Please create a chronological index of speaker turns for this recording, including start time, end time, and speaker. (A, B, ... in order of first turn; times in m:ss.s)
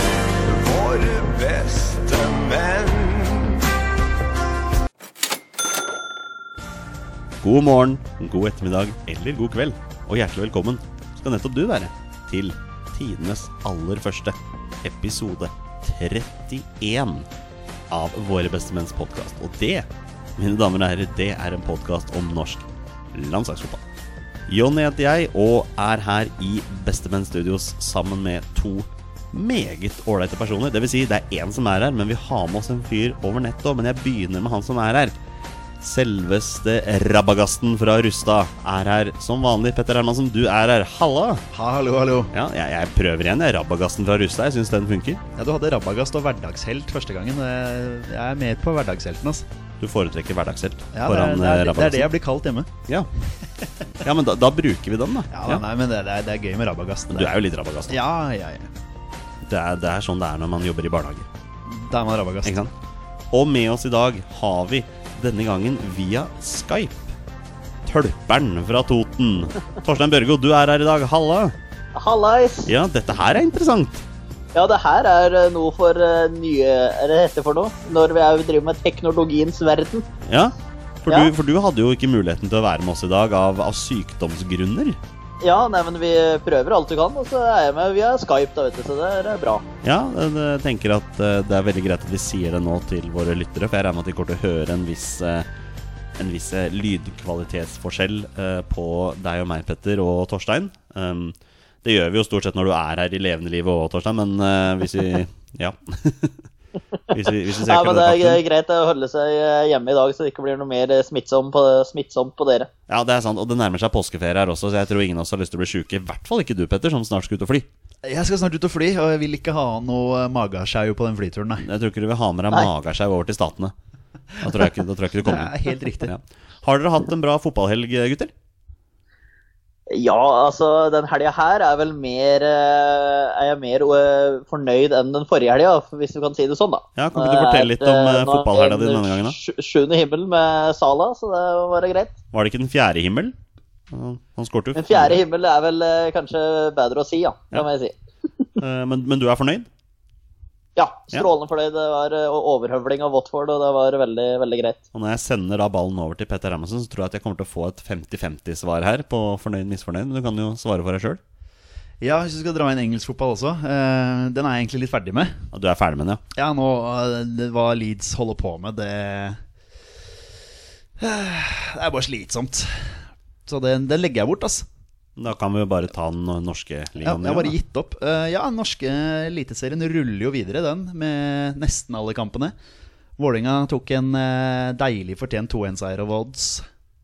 0:00.4-0:03.6 A
0:07.4-0:17.3 B
0:17.9-0:23.8 B
0:24.5-0:35.2 B
0:35.8-0:41.4 B
0:41.5-0:42.3 C
0:42.3-0:45.2 B
0:45.4-0:49.4 C
0:49.8-0:52.1 B
0:50.9-0:52.7 C
0:54.0-0:55.6 B
0:55.3-0:57.4 C
0:57.1-0:58.0 B
0:57.9-0:58.7 C
0:59.5-1:01.3 B
1:01.7-1:02.6 C
1:02.4-1:02.7 B
1:03.3-1:07.1 B
1:07.8-1:11.6 B
1:12.0-1:12.7 D
1:12.7-1:14.0 B
1:14.6-1:20.0 D
1:20.3-1:25.0 B
1:21.1-1:21.3 D
1:25.4-1:29.6 D
1:29.8-1:35.5 B
1:36.2-1:46.4 B
1:47.1-1:48.4 B
1:47.7-1:52.7 D
1:52.9-1:57.7 B
1:58.0-2:01.6 C
2:01.6-2:03.7 B
2:04.4-2:08.3 B
2:05.2-2:06.1 C
2:09.9-2:22.2 D
2:17.0-2:19.4 B
2:22.3-2:23.3 B
2:23.9-2:25.2 B
2:24.8-2:28.0 D
2:28.6-2:29.7 B
2:30.8-2:34.8 D
2:34.9-2:41.2 B
2:42.0-2:45.4 C
2:45.5-2:46.2 B
2:46.3-2:49.4 C
2:51.0-2:54.7 C
2:55.2-2:57.6 B
2:57.0-3:02.6 C
3:03.2-3:06.7 C